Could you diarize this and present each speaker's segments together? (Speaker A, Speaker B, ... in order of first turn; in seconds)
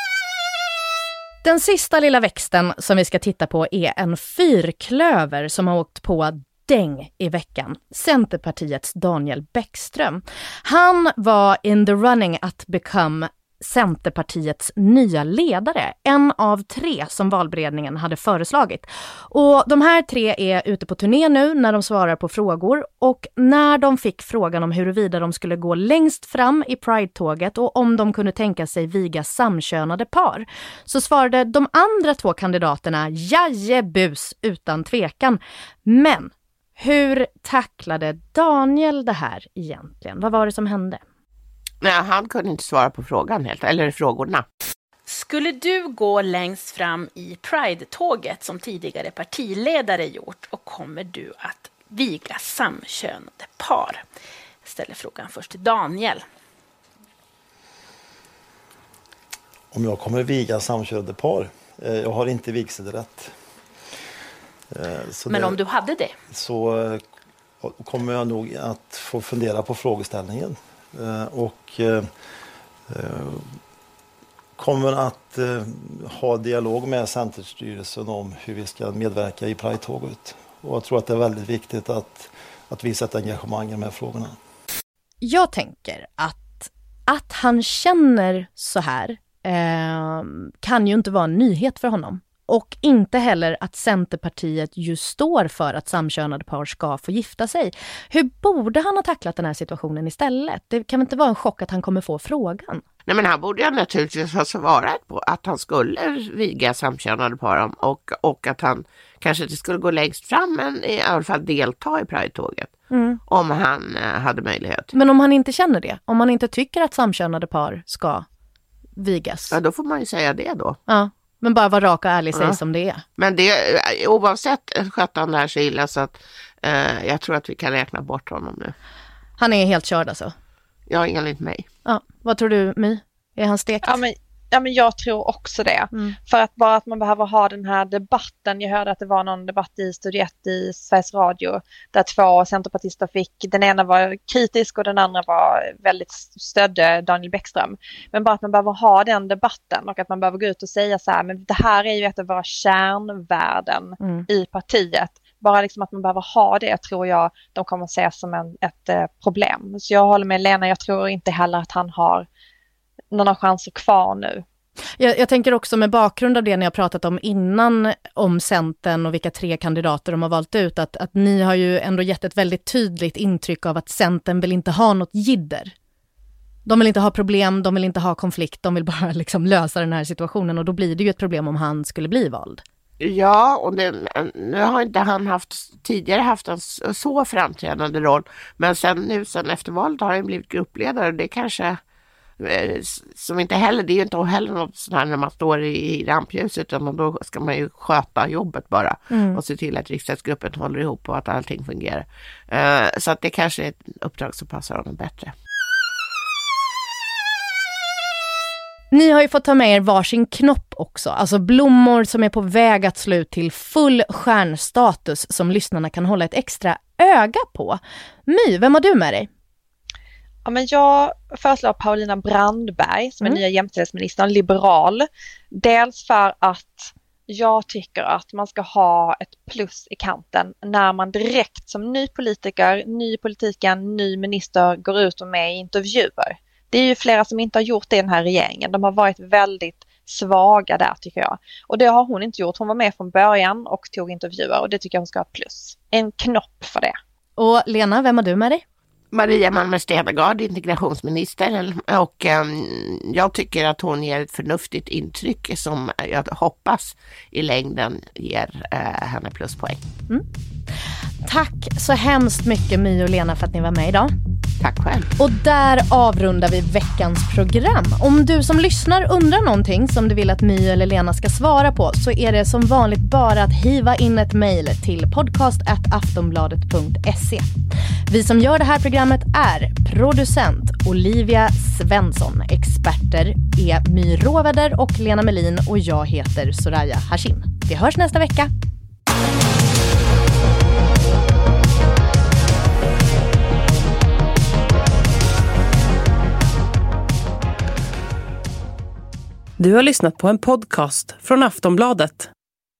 Speaker A: 1.4-41.0, 85.2-102.8, 112.9-113.2, 114.9-118.2, 119.0-119.5, 120.9-123.0, 129.4-130.3, 131.8-134.0, 154.0-154.2, 165.0-175.7, 176.7-182.6, 199.1-199.4, 208.9-219.3, 247.4-248.6, 261.2-264.1, 265.2-277.4, 278.1-288.5
Speaker B: 41.8-44.5, 103.0-112.7, 113.3-114.9, 119.5-120.8, 122.3-122.6, 123.2-128.7, 130.9-131.7, 183.0-191.8, 192.4-205.3, 249.1-259.8, 264.6-265.1
Speaker C: 45.1-54.0, 54.6-56.2, 65.3-66.1
Speaker D: 59.7-63.3, 64.7-65.6, 66.3-67.1, 67.6-72.1, 72.9-73.5, 74.6-84.3
Speaker E: 133.8-162.3, 163.1-164.4, 220.4-246.9
Speaker F: 299.6-302.3